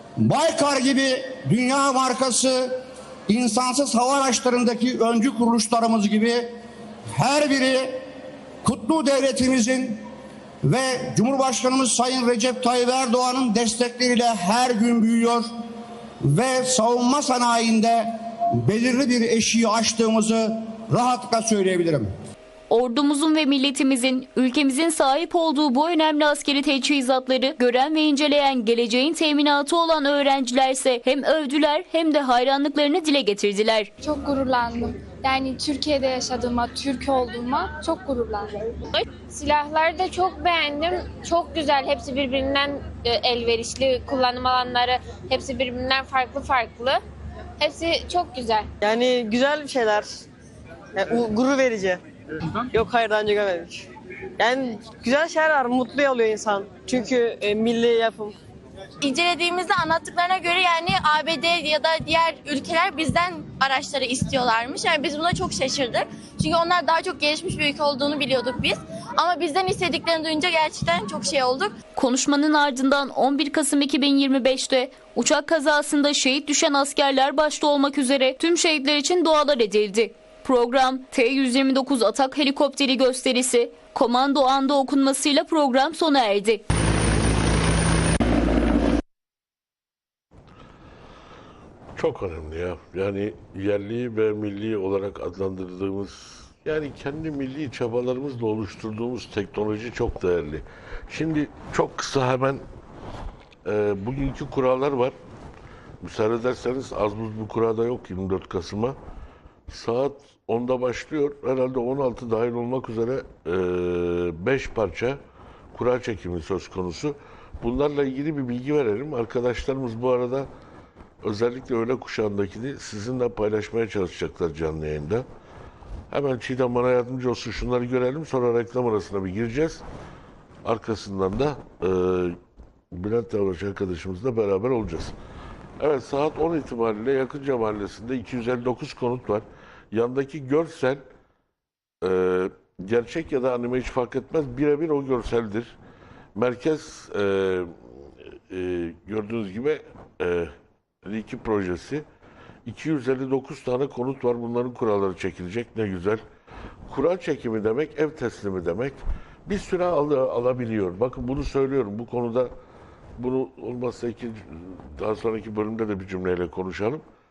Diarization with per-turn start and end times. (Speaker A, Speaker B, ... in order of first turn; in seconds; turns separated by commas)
Speaker A: 0.2-6.5, Speaker A: 7.1-8.0, Speaker A: 8.6-10.0, Speaker A: 10.6-15.5, Speaker A: 16.2-22.1, Speaker B: 22.7-33.9, Speaker C: 34.0-38.6, Speaker D: 39.2-47.0, Speaker D: 47.6-48.7, Speaker E: 48.8-50.1, Speaker E: 51.0-52.0, Speaker E: 52.6-53.9, Speaker E: 54.4-58.4, Speaker F: 59.0-71.7, Speaker B: 72.0-86.6, Speaker G: 92.0-102.6, Speaker G: 103.6-105.1, Speaker G: 106.0-109.0, Speaker G: 109.7-115.2, Speaker G: 115.7-120.5, Speaker G: 121.2-125.2, Speaker G: 126.1-129.8, Speaker G: 130.6-132.4, Speaker G: 132.9-135.1, Speaker G: 135.8-141.0, Speaker G: 142.0-145.7, Speaker G: 146.3-150.5, Speaker G: 151.0-152.0, Speaker G: 152.7-156.2, Speaker G: 156.9-162.5, Speaker G: 163.2-167.0